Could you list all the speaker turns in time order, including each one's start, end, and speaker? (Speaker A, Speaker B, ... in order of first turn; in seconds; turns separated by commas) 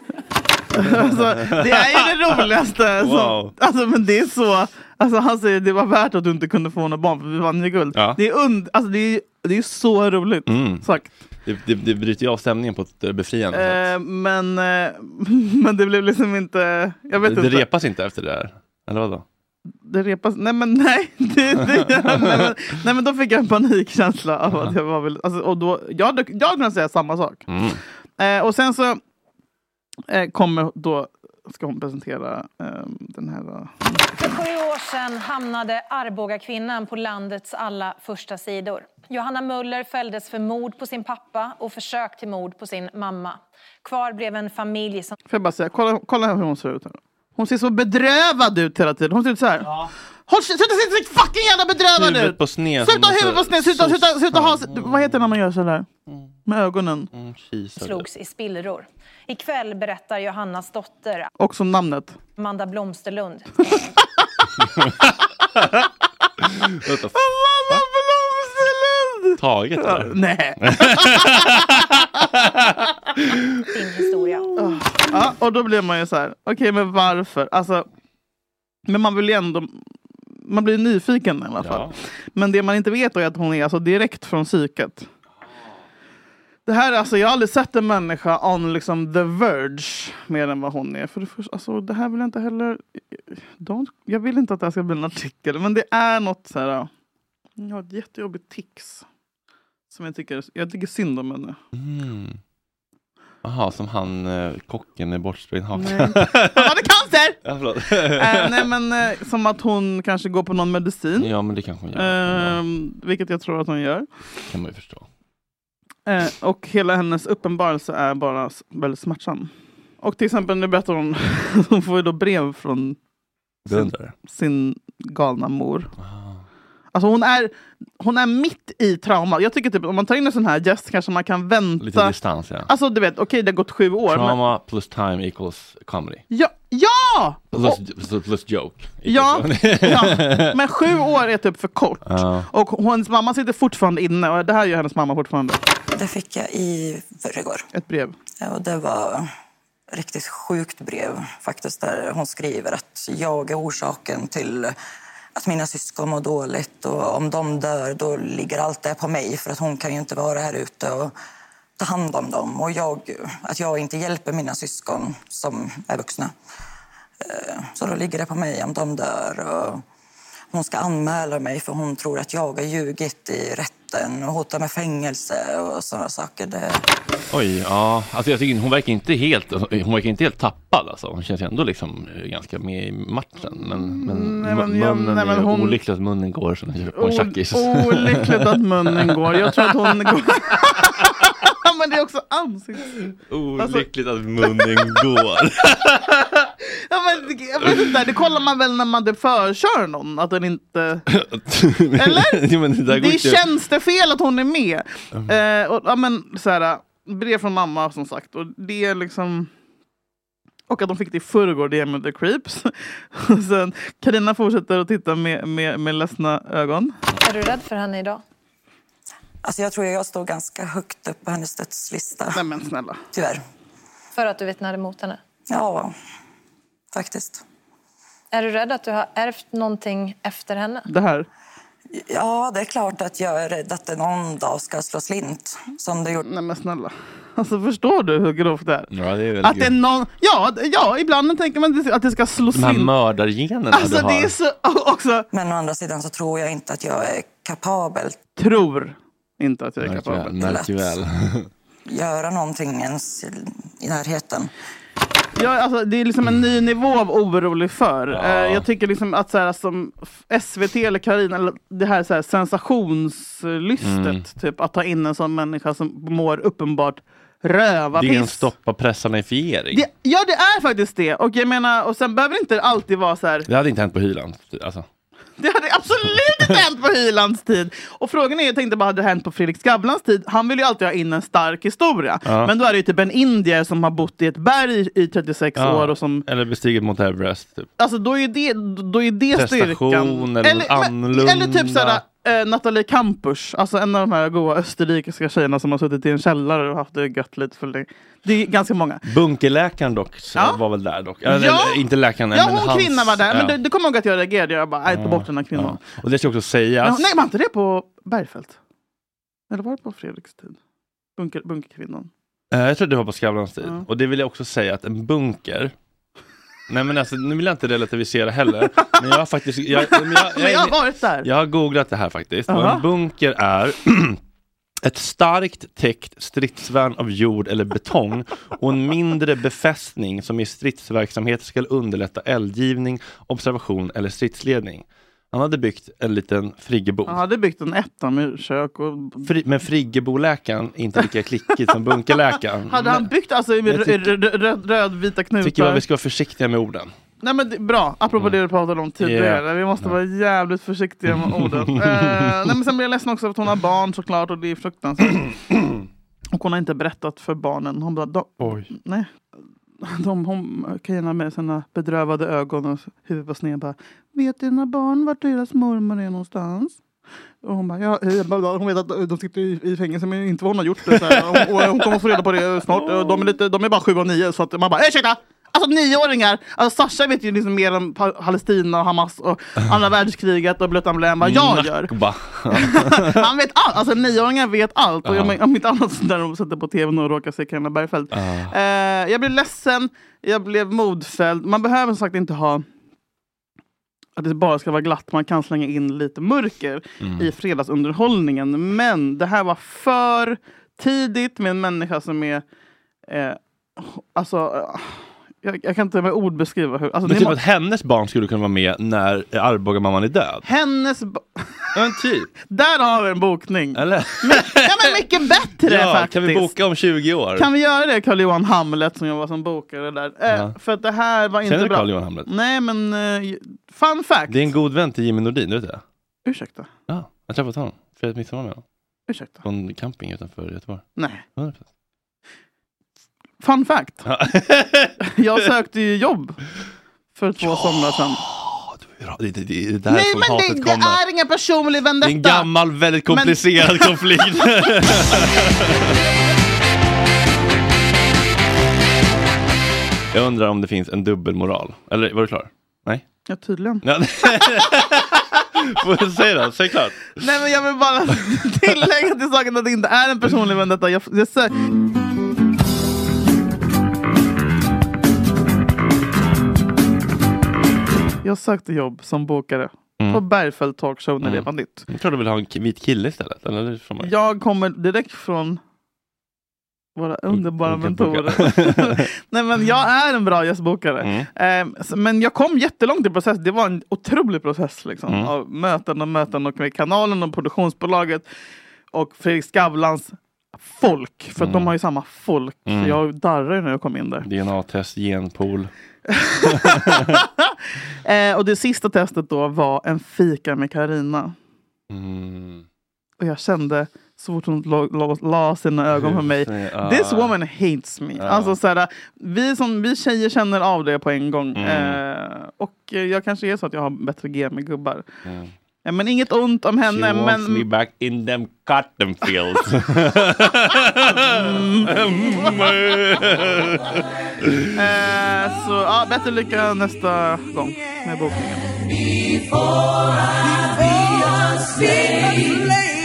Speaker A: 0.7-11.1, Speaker B: 0.8-2.4, Speaker B: 3.0-3.5, Speaker B: 7.9-8.2, Speaker B: 10.5-10.9, Speaker B: 11.4-13.9, Speaker A: 13.5-17.6, Speaker B: 17.2-19.2, Speaker A: 19.8-27.4, Speaker B: 21.9-22.5, Speaker B: 27.5-27.8, Speaker A: 28.2-29.0, Speaker A: 30.1-34.4, Speaker C: 34.2-45.1, Speaker A: 45.3-49.8, Speaker A: 50.3-55.9, Speaker B: 51.9-55.3, Speaker B: 56.1-56.3, Speaker A: 56.5-57.1, Speaker B: 57.1-58.1, Speaker C: 57.8-61.3, Speaker A: 61.4-62.1, Speaker C: 62.4-63.5, Speaker B: 66.6-67.2, Speaker A: 67.1-72.0, Speaker B: 69.4-70.1, Speaker B: 70.6-71.8, Speaker B: 72.4-72.7, Speaker C: 73.7-74.5, Speaker A: 74.5-77.8, Speaker A: 78.9-79.8, Speaker A: 80.4-85.1, Speaker B: 81.6-81.9, Speaker A: 86.7-96.9, Speaker A: 97.6-99.0, Speaker A: 99.9-101.6, Speaker B: 101.7-102.4, Speaker B: 103.4-106.7, Speaker A: 105.7-107.4, Speaker B: 107.4-108.7, Speaker A: 108.0-111.3, Speaker B: 111.2-112.6, Speaker A: 111.9-114.0, Speaker B: 114.5-115.1, Speaker A: 116.1-123.0, Speaker B: 123.7-124.1, Speaker A: 123.7-125.9, Speaker B: 126.0-126.4, Speaker A: 126.9-132.1, Speaker B: 131.8-132.7, Speaker A: 132.7-134.4, Speaker B: 134.1-136.2, Speaker A: 136.3-137.8, Speaker B: 137.5-140.5, Speaker A: 139.1-145.6, Speaker B: 142.0-142.5, Speaker D: 145.9-147.6, Speaker A: 147.7-148.1, Speaker D: 148.4-149.3, Speaker D: 149.9-154.8, Speaker D: 155.3-161.1, Speaker D: 161.8-166.3, Speaker D: 167.2-169.8, Speaker D: 170.5-176.8, Speaker B: 177.3-190.1, Speaker A: 183.6-185.8, Speaker A: 186.9-192.9, Speaker B: 193.2-196.4, Speaker A: 193.6-193.8, Speaker A: 194.5-195.2, Speaker A: 196.9-201.0, Speaker B: 197.6-197.9, Speaker B: 201.1-203.5, Speaker A: 202.0-209.5, Speaker A: 210.7-216.9, Speaker C: 217.2-218.2, Speaker D: 219.4-222.4, Speaker A: 222.3-223.0, Speaker D: 223.1-223.4, Speaker C: 224.1-225.2, Speaker D: 225.5-225.9, Speaker D: 226.9-227.4, Speaker C: 228.3-230.9, Speaker A: 230.9-231.3, Speaker D: 231.9-236.2, Speaker A: 236.2-238.9, Speaker B: 238.9-239.7, Speaker A: 239.4-242.9, Speaker B: 242.5-244.3, Speaker A: 243.7-245.2, Speaker D: 245.3-248.2, Speaker A: 248.4-250.4, Speaker B: 249.8-251.5, Speaker D: 250.4-250.9, Speaker D: 251.9-254.5, Speaker A: 255.3-268.5, Speaker B: 258.1-258.6, Speaker B: 263.8-264.2, Speaker B: 267.9-269.9, Speaker A: 269.7-273.5, Speaker B: 273.5-274.9, Speaker A: 275.4-286.2, Speaker B: 282.2-282.5, Speaker B: 285.6-287.7, Speaker A: 287.8-299.0, Speaker B: 289.3-292.0, Speaker B: 299.0-303.6, Speaker A: 301.3-301.8, Speaker A: 302.3-305.8, Speaker B: 304.9-307.1, Speaker A: 306.8-308.6, Speaker A: 309.5-310.6, Speaker A: 311.2-312.1, Speaker B: 312.5-315.7, Speaker B: 316.7-324.2, Speaker A: 319.7-321.3, Speaker A: 322.5-322.8, Speaker B: 324.8-337.2, Speaker A: 337.1-339.3, Speaker B: 339.2-343.1, Speaker A: 342.7-345.8, Speaker B: 343.7-344.2, Speaker B: 345.4-346.9, Speaker A: 347.2-355.3, Speaker B: 349.0-350.0, Speaker B: 351.1-352.5, Speaker A: 356.3-359.1, Speaker B: 358.4-358.7, Speaker A: 359.8-366.8, Speaker A: 367.4-381.9, Speaker B: 370.9-372.0, Speaker B: 381.2-383.2, Speaker A: 382.5-392.6, Speaker B: 385.0-385.4, Speaker B: 388.1-388.5, Speaker A: 394.2-402.4, Speaker B: 397.0-397.3, Speaker A: 403.1-407.4, Speaker B: 407.0-410.4, Speaker A: 410.4-411.6, Speaker B: 411.7-412.3, Speaker A: 412.5-416.5, Speaker B: 413.7-414.9, Speaker B: 415.6-417.5, Speaker A: 417.4-424.5, Speaker B: 420.3-420.5, Speaker B: 421.4-422.3, Speaker B: 424.3-425.8, Speaker A: 426.2-426.7, Speaker B: 426.9-428.6, Speaker A: 429.1-429.4, Speaker B: 429.4-431.6, Speaker A: 431.0-431.2, Speaker A: 433.4-434.1, Speaker B: 434.1-435.0, Speaker A: 435.1-436.4, Speaker A: 437.1-438.2, Speaker B: 437.4-441.0, Speaker A: 439.9-442.5, Speaker B: 442.0-446.0, Speaker A: 443.1-445.2, Speaker B: 450.1-453.0, Speaker A: 453.3-453.8, Speaker B: 453.8-457.2, Speaker A: 457.2-461.5, Speaker A: 468.2-471.9, Speaker B: 471.2-474.1, Speaker A: 474.0-475.6, Speaker A: 476.9-488.2, Speaker B: 477.3-479.1, Speaker B: 481.0-481.3, Speaker A: 488.9-494.2, Speaker B: 491.4-491.7, Speaker B: 492.7-493.0, Speaker B: 494.2-495.7, Speaker A: 496.1-497.5, Speaker B: 496.5-497.2, Speaker A: 498.0-501.3, Speaker B: 501.9-502.6, Speaker A: 503.2-515.0, Speaker B: 505.9-507.3, Speaker B: 508.2-508.6, Speaker B: 511.6-512.0, Speaker B: 515.2-515.5, Speaker A: 515.8-517.6, Speaker B: 516.8-524.7, Speaker A: 521.1-521.9, Speaker A: 524.7-528.8, Speaker A: 530.6-532.6